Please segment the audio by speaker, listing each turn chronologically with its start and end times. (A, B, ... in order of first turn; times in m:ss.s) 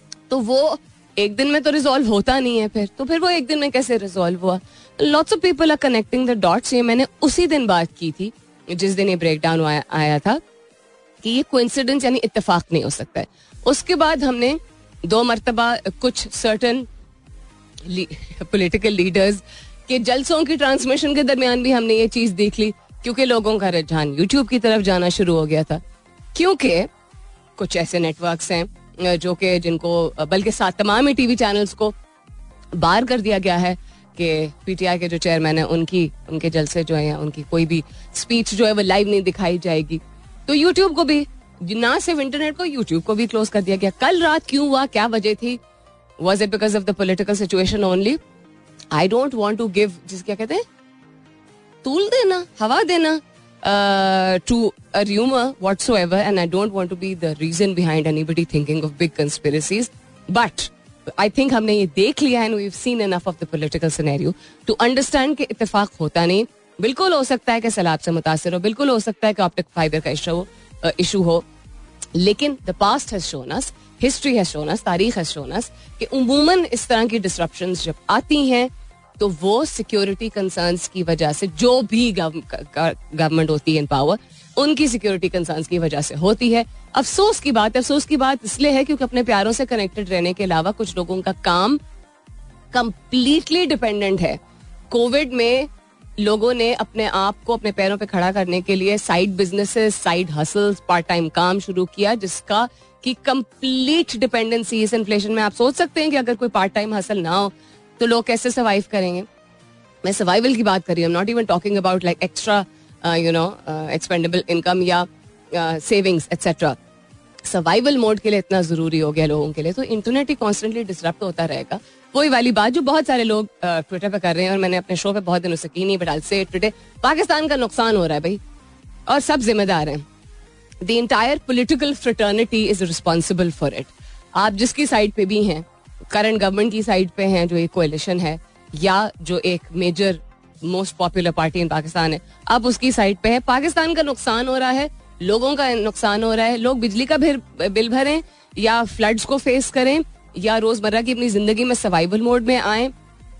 0:00.3-0:10.4 A
0:11.2-0:16.9 A
0:17.8-0:25.8 A
0:26.3-0:26.9 A
0:27.6-0:32.0 A
0:32.7-0:45.6 A
0:46.2-0:48.2 A
0:48.9-0:50.6 A
0:51.8-1:11.4 A
1:12.1-1:31.8 A
1:32.7-1:49.3 A
1:50.0-1:56.8 A
1:57.4-2:08.4 A
2:09.1-2:10.0 A
2:10.8-2:32.9 A